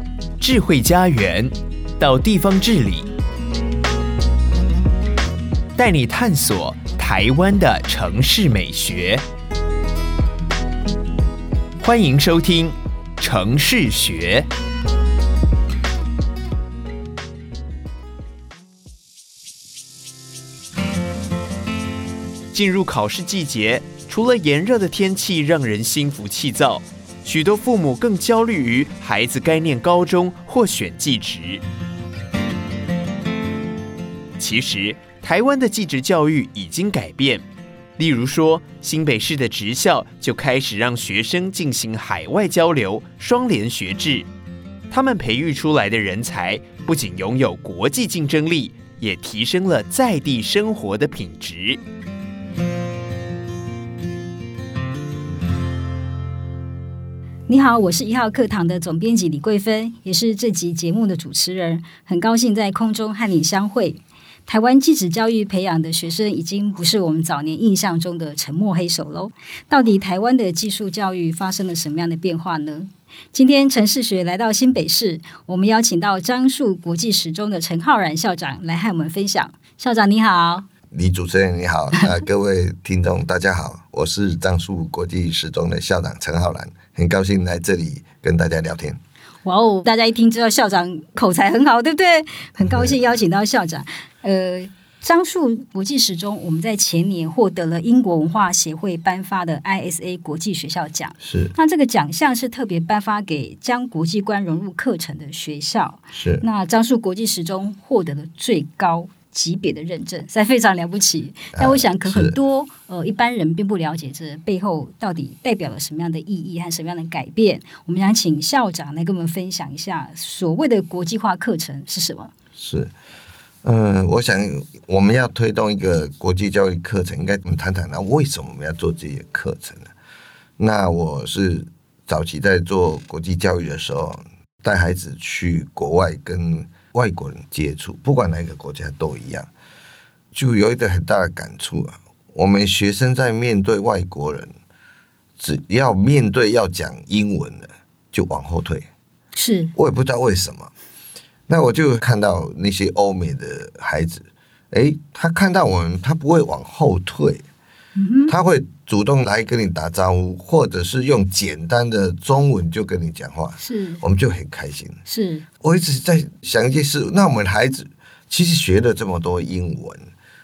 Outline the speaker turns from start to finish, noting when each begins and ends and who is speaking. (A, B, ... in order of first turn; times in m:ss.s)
0:00.4-0:03.1 A
0:05.8-0:09.2 A
0:11.8-0:14.5 A
0:22.5-0:31.6 A
0:34.4-0:37.4 A
0:38.0-0:44.3 A
0:44.9-0:51.8 A
0:57.5-1:20.6 B
1:20.9-1:29.0 C
1:29.4-2:02.3 B
1:32.7-1:33.0 C
1:41.2-1:41.5 C
1:46.1-1:46.4 C
1:51.6-1:52.4 C
2:02.6-2:02.9 C
2:03.6-2:09.9 C
2:10.6-2:19.5 C
2:20.3-2:24.5 C
2:25.4-2:28.9 C
2:29.3-2:29.7 B
2:29.7-2:30.7 C
2:31.5-2:37.4 C
2:37.9-2:38.3 B
2:38.3-2:45.0 C
2:43.6-2:44.0 B
2:45.1-2:45.4 B
2:45.6-2:50.1 C